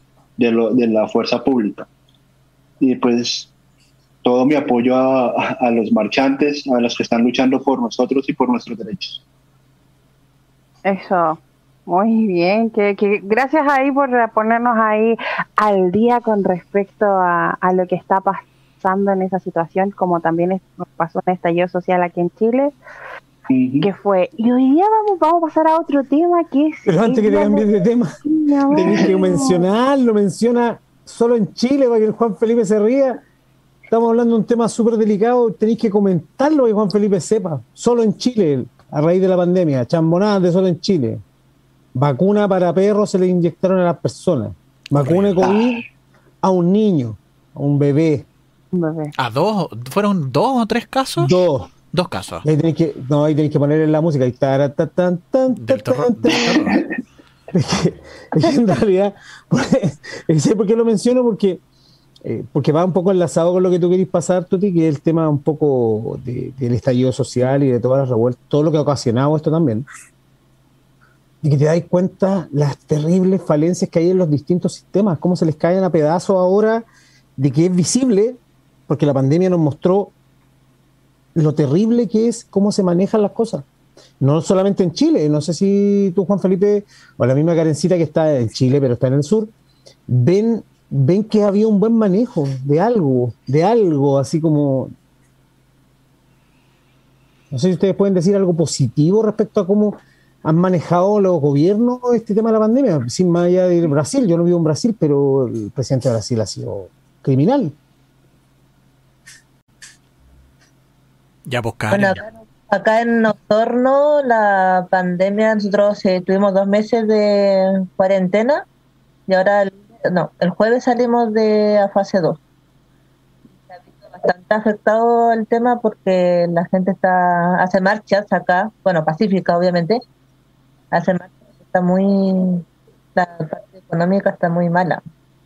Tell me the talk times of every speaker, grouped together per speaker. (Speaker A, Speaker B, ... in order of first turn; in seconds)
Speaker A: 0.4-1.9, 2.8-3.5, 4.2-9.2, 23.5-23.9, 28.8-29.4
Speaker B: 10.9-22.8, 23.8-27.7, 28.2-29.6, 48.7-49.1
Speaker C: 26.9-28.1, 28.7-33.2, 33.9-41.2, 42.0-45.8, 46.4-48.3, 51.2-51.7, 52.4-56.7, 57.5-61.6, 62.2-69.9, 71.4-76.9, 77.4-80.1, 81.3-83.7, 84.2-89.5, 90.1-94.9, 97.5-107.8
Speaker D: 45.0-45.6, 49.2-52.5, 55.6-56.8, 111.5-112.2
Speaker E: 111.9-118.7, 119.3-122.4, 124.1-130.0, 130.9-132.7, 133.2-135.0